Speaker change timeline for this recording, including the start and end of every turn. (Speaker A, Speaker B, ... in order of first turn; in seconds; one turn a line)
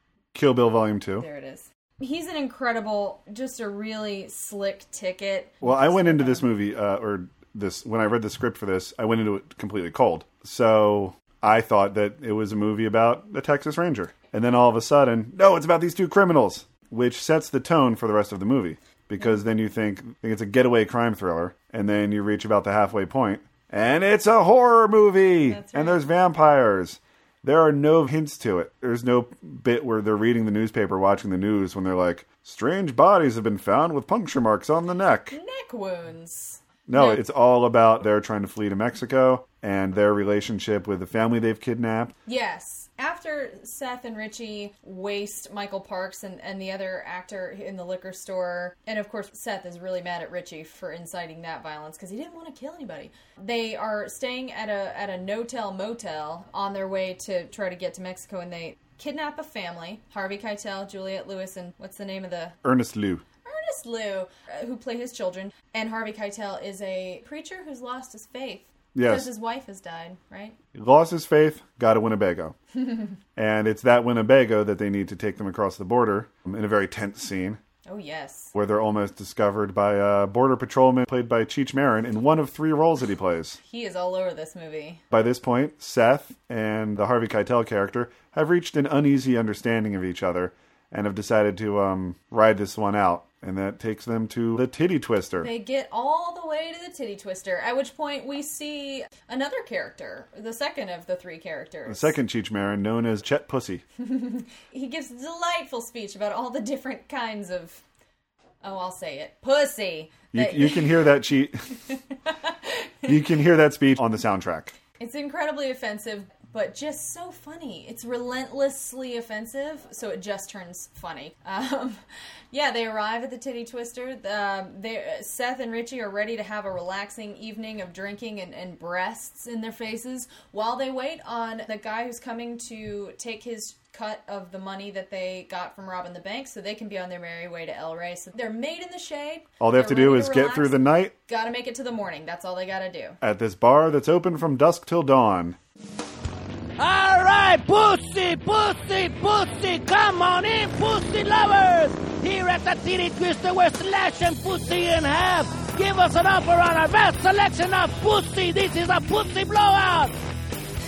Speaker A: 0.3-1.2
Speaker B: 1.2-6.5
Speaker A: 5.6-35.4
Speaker B: 25.5-26.0
Speaker B: 35.3-37.2
Speaker A: 36.9-42.1
Speaker B: 42.2-62.5
Speaker A: 62.6-63.2
Speaker B: 63.4-70.5
Speaker A: 68.9-69.3
Speaker A: 70.7-72.5
Speaker B: 72.7-73.1
Speaker A: 73.3-77.6
Speaker B: 77.8-78.5
Speaker A: 78.5-83.6
Speaker B: 83.6-85.0
Speaker A: 85.1-95.5
Speaker B: 95.4-102.2
Speaker A: 101.8-103.8
Speaker B: 104.0-107.8
Speaker B: 108.6-110.9
Speaker A: 110.3-111.6
Speaker B: 112.3-113.1
Speaker A: 113.0-114.7
Speaker B: 115.0-122.0
Speaker B: 122.5-143.2
Speaker A: 139.6-141.1
Speaker A: 143.2-145.6
Speaker C: 146.8-160.1